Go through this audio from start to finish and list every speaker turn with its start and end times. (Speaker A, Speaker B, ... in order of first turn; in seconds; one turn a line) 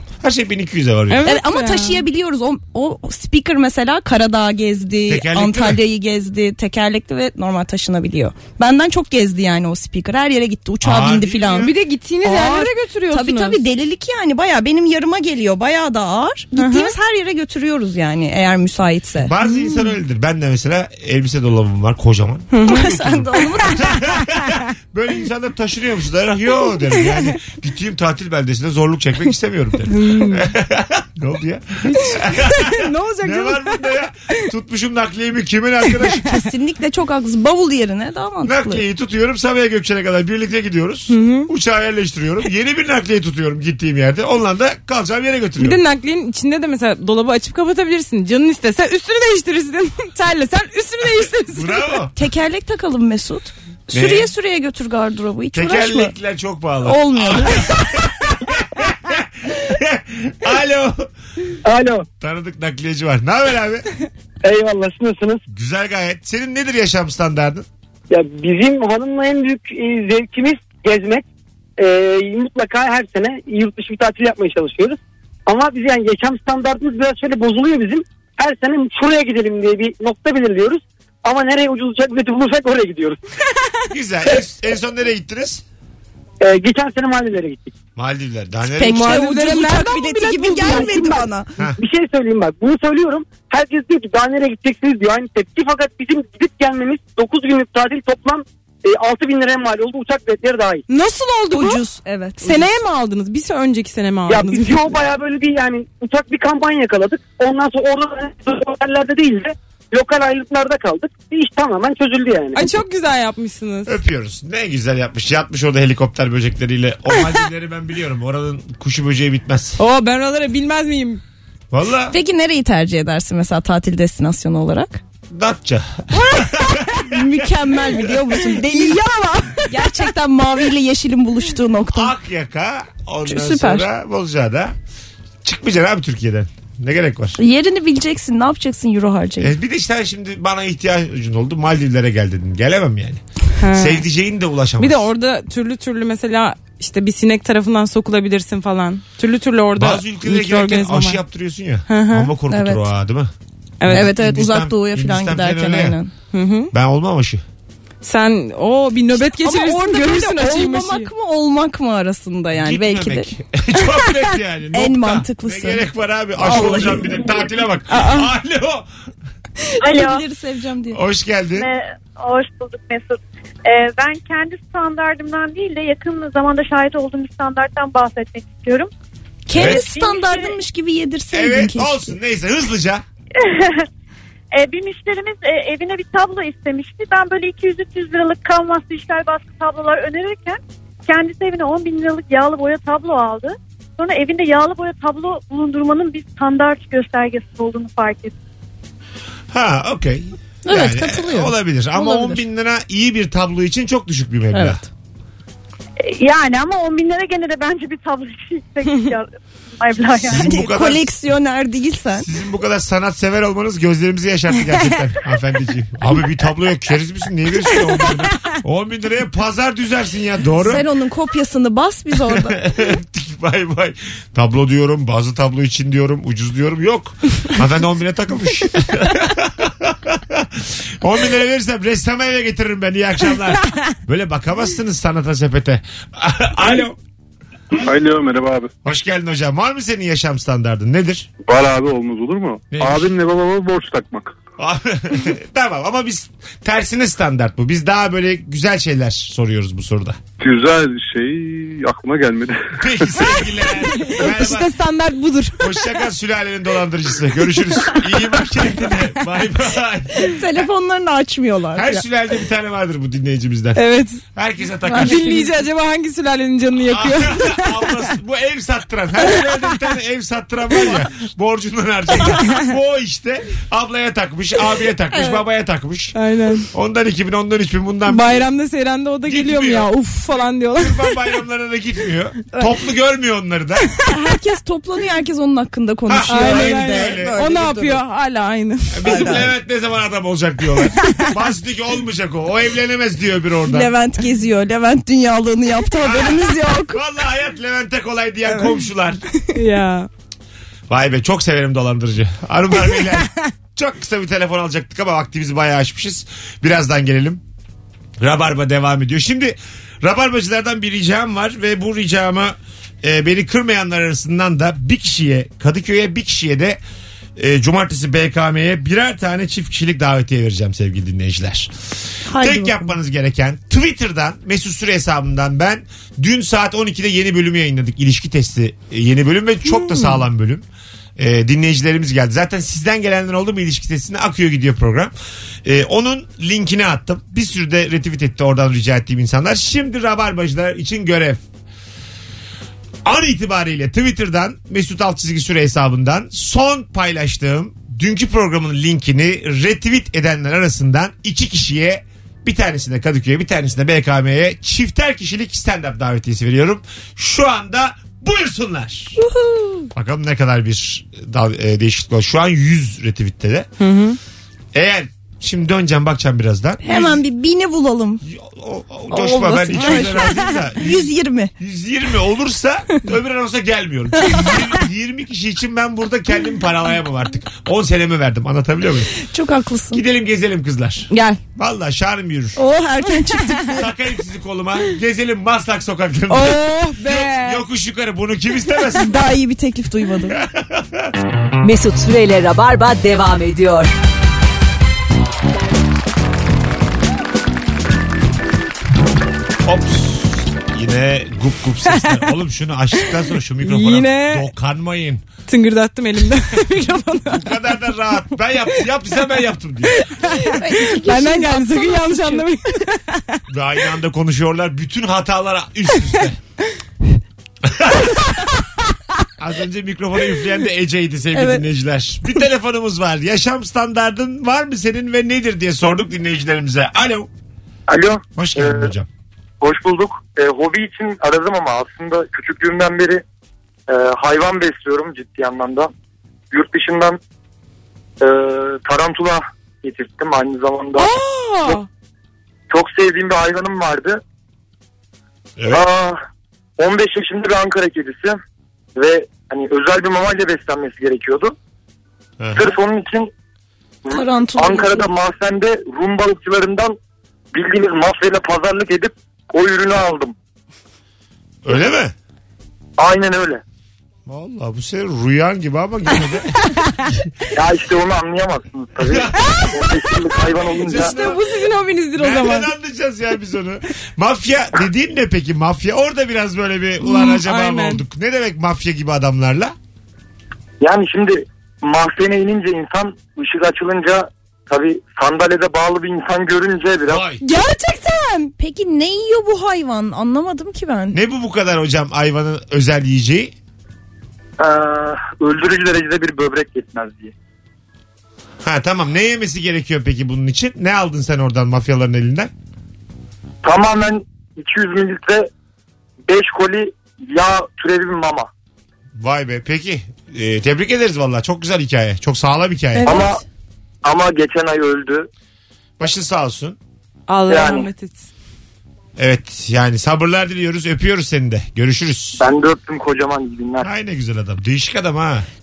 Speaker A: 0.2-1.3
Speaker B: 1.1-2.0
Speaker C: 1.2-19.4
Speaker A: 5.1-5.8
Speaker A: 10.8-11.7
Speaker B: 11.6-13.6
Speaker B: 16.6-16.9
Speaker A: 19.2-36.3
Speaker B: 22.5-22.9
Speaker C: 22.6-24.2
Speaker B: 29.9-30.5
Speaker B: 31.9-33.8
Speaker C: 36.2-38.8
Speaker A: 38.4-45.8
Speaker B: 41.1-41.5
Speaker B: 45.6-51.9
Speaker A: 51.5-52.1
Speaker C: 52.1-56.1
Speaker A: 53.9-54.3
Speaker A: 55.5-61.1
Speaker C: 56.8-57.8
Speaker D: 61.6-62.1
Speaker A: 62.2-63.9
Speaker D: 64.4-65.4
Speaker A: 65.5-67.7
Speaker D: 68.1-71.2
Speaker D: 71.8-83.2
Speaker A: 83.9-85.6
Speaker D: 86.4-87.7
Speaker A: 88.0-89.2
Speaker C: 88.7-91.5
Speaker B: 88.8-91.1
Speaker D: 90.7-91.2
Speaker D: 91.8-100.8
Speaker B: 100.9-101.9
Speaker C: 101.5-102.7
Speaker B: 102.4-104.8
Speaker D: 104.3-112.6
Speaker B: 112.5-113.9
Speaker A: 113.9-119.8
Speaker B: 119.8-121.2
Speaker A: 121.7-122.2
Speaker C: 122.1-125.0
Speaker A: 125.3-127.2
Speaker C: 127.0-129.1
Speaker B: 128.7-129.7
Speaker C: 129.7-132.1
Speaker A: 131.9-134.8
Speaker C: 133.3-133.9
Speaker A: 135.4-137.4
Speaker C: 137.4-139.5
Speaker A: 139.4-143.2
Speaker B: 143.6-144.0
Speaker A: 143.7-145.1
Speaker B: 144.8-151.2
Speaker A: 149.8-153.3
Speaker B: 151.9-152.3
Speaker C: 152.5-152.9
Speaker B: 153.8-154.1
Speaker A: 153.9-156.0
Speaker C: 153.9-156.1
Speaker B: 156.3-156.7
Speaker A: 156.7-157.4
Speaker B: 158.0-161.1
Speaker C: 159.2-163.3
Speaker A: 162.5-168.9
Speaker C: 164.7-165.9
Speaker C: 166.4-167.1
Speaker B: 167.9-168.3
Speaker C: 169.8-171.0
Speaker E: 169.8-170.2
Speaker A: 170.9-171.7
Speaker E: 171.6-178.9
Speaker C: 179.5-182.1
Speaker A: 179.5-179.9
Speaker E: 179.6-180.5
Speaker A: 181.3-183.0
Speaker E: 183.4-183.9
Speaker E: 184.5-198.3
Speaker A: 199.5-204.8
Speaker C: 200.7-202.4
Speaker C: 204.5-204.9
Speaker E: 206.0-210.4
Speaker A: 210.2-211.1
Speaker C: 210.3-212.3
Speaker A: 212.2-220.8
Speaker C: 220.6-222.6
Speaker A: 222.3-237.0
Speaker F: 237.8-238.7
Speaker A: 238.8-241.3
Speaker F: 241.4-244.3
Speaker A: 242.7-243.1
Speaker A: 244.6-250.2
Speaker F: 250.4-253.1
Speaker A: 252.8-254.7
Speaker B: 254.0-255.7
Speaker A: 255.6-260.3
Speaker C: 260.2-262.1
Speaker A: 261.7-263.8
Speaker B: 263.8-264.2
Speaker A: 264.4-265.3
Speaker C: 264.9-265.5
Speaker B: 265.0-267.7
Speaker A: 266.9-276.1
Speaker C: 275.1-275.4
Speaker B: 276.1-276.7
Speaker A: 276.7-278.4
Speaker B: 278.1-281.1
Speaker A: 279.3-279.9
Speaker A: 280.8-283.9
Speaker C: 284.1-288.0
Speaker A: 286.1-287.4
Speaker B: 286.3-289.4
Speaker A: 288.9-293.9
Speaker C: 289.0-289.5
Speaker C: 293.7-297.0
Speaker A: 296.0-299.2
Speaker B: 299.5-300.1
Speaker A: 300.9-307.4
Speaker A: 308.2-316.8
Speaker A: 317.4-321.7
Speaker C: 322.3-322.9
Speaker A: 322.3-330.6
Speaker C: 329.7-330.2
Speaker A: 331.2-335.1
Speaker A: 335.6-341.4
Speaker A: 343.1-359.2
Speaker C: 359.2-359.9
Speaker A: 359.9-363.7
Speaker B: 363.8-364.2
Speaker A: 364.7-367.2
Speaker C: 366.8-368.2
Speaker A: 368.2-379.1
Speaker C: 369.1-371.5
Speaker C: 379.1-380.0
Speaker A: 379.9-382.6
Speaker B: 381.1-381.4
Speaker C: 382.6-383.9
Speaker A: 383.6-389.1
Speaker B: 386.3-387.6
Speaker C: 388.9-390.4
Speaker A: 390.3-391.1
Speaker G: 391.6-393.9
Speaker A: 399.6-405.2
Speaker B: 403.6-404.4
Speaker B: 405.5-407.6
Speaker A: 407.3-409.9
Speaker B: 409.9-413.4
Speaker C: 410.3-412.5
Speaker A: 413.5-416.4
Speaker A: 417.6-418.1
Speaker A: 419.4-427.3
Speaker C: 421.3-421.6
Speaker H: 427.9-428.9
Speaker A: 428.4-429.1
Speaker H: 429.6-433.2
Speaker H: 433.9-435.9
Speaker H: 436.5-437.2
Speaker H: 438.2-441.1
Speaker B: 440.9-441.9
Speaker H: 442.7-444.2
Speaker A: 445.6-445.9
Speaker H: 445.7-446.2
Speaker H: 446.8-448.4
Speaker H: 448.9-451.6
Speaker A: 452.4-452.7
Speaker H: 452.5-453.3
Speaker C: 454.1-455.1
Speaker H: 454.1-456.9
Speaker H: 457.5-460.4
Speaker A: 461.6-462.1
Speaker H: 463.0-463.6
Speaker A: 464.3-466.7
Speaker H: 467.5-471.2
Speaker A: 469.0-470.0
Speaker A: 470.7-471.4
Speaker B: 470.9-472.7
Speaker A: 472.1-479.7
Speaker B: 477.0-478.0
Speaker H: 480.8-487.2
Speaker A: 487.1-487.4
Speaker B: 487.4-488.5
Speaker C: 488.6-491.2
Speaker A: 491.1-493.5
Speaker H: 494.6-497.3
Speaker A: 498.6-502.5
Speaker H: 503.6-505.5
Speaker H: 506.3-508.5
Speaker A: 509.2-513.3
Speaker C: 513.0-513.4
Speaker H: 513.1-513.4
Speaker H: 514.0-515.3
Speaker A: 516.0-516.8
Speaker B: 517.3-518.3
Speaker H: 517.5-517.9
Speaker A: 519.2-522.4
Speaker H: 522.4-523.9
Speaker A: 523.8-525.5